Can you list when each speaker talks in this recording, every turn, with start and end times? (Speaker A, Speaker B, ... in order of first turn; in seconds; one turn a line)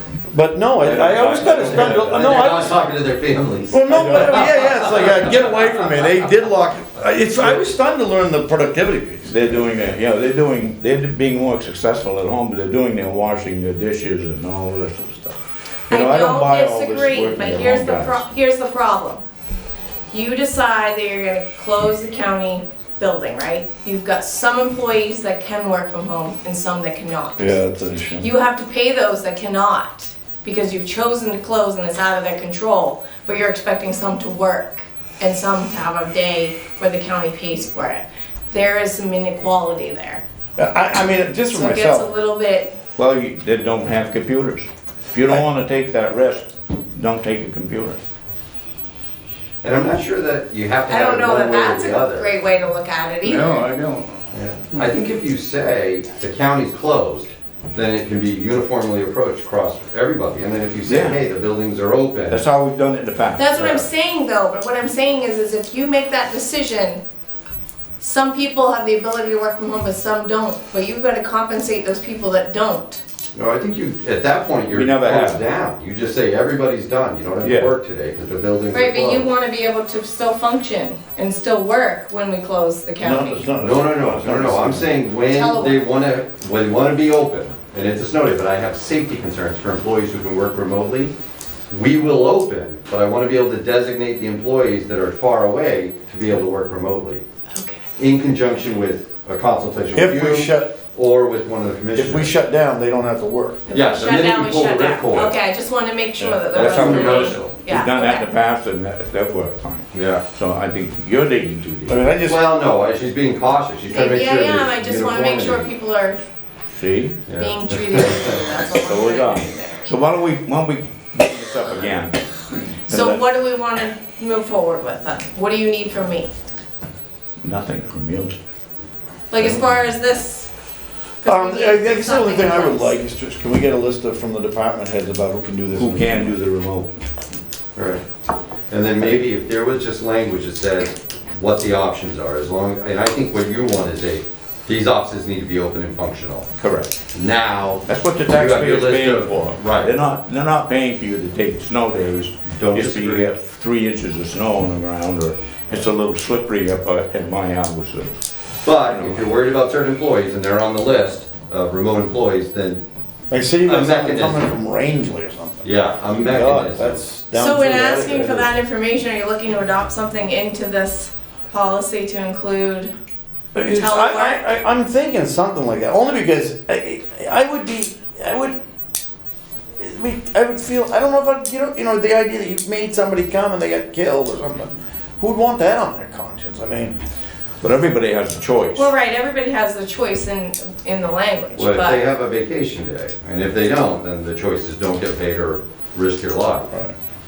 Speaker A: 0.3-2.7
Speaker B: 0.8-2.6
Speaker C: 1.5-6.2
Speaker A: 3.7-9.7
Speaker B: 9.3-18.2
Speaker D: 15.9-19.2
Speaker D: 20.1-27.6
Speaker A: 27.4-28.3
Speaker D: 28.1-40.2
Speaker A: 40.6-42.1
Speaker D: 41.5-42.7
Speaker B: 43.0-48.0
Speaker C: 49.6-52.3
Speaker D: 50.9-53.7
Speaker A: 53.4-54.1
Speaker C: 54.3-62.4
Speaker B: 60.8-61.2
Speaker B: 62.3-63.9
Speaker D: 63.4-67.0
Speaker D: 68.0-73.0
Speaker C: 73.3-79.3
Speaker B: 74.7-75.4
Speaker B: 77.4-77.7
Speaker D: 78.7-83.5
Speaker A: 83.0-84.9
Speaker C: 83.6-91.1
Speaker D: 85.3-85.9
Speaker C: 91.7-97.2
Speaker D: 97.5-97.8
Speaker C: 98.0-102.3
Speaker A: 99.9-100.7
Speaker A: 102.0-103.6
Speaker D: 103.7-108.2
Speaker C: 103.7-105.3
Speaker B: 106.2-112.0
Speaker C: 106.5-107.5
Speaker C: 109.9-110.2
Speaker A: 111.9-112.4
Speaker C: 112.2-115.7
Speaker D: 113.9-116.2
Speaker B: 116.7-117.2
Speaker C: 117.3-118.4
Speaker D: 117.3-119.8
Speaker B: 118.7-123.2
Speaker D: 122.8-126.3
Speaker B: 127.4-128.4
Speaker D: 129.3-130.5
Speaker D: 131.2-132.9
Speaker A: 131.2-136.3
Speaker B: 135.8-136.9
Speaker C: 137.7-138.0
Speaker C: 138.7-146.5
Speaker B: 146.6-147.0
Speaker C: 147.1-149.9
Speaker B: 147.8-158.3
Speaker C: 152.5-153.3
Speaker C: 158.6-162.8
Speaker B: 158.8-159.2
Speaker A: 163.3-168.5
Speaker C: 163.6-164.5
Speaker C: 165.6-167.0
Speaker D: 167.3-172.9
Speaker A: 173.5-178.6
Speaker D: 173.7-174.4
Speaker A: 179.8-187.0
Speaker B: 187.6-188.9
Speaker D: 188.7-192.0
Speaker C: 191.6-196.7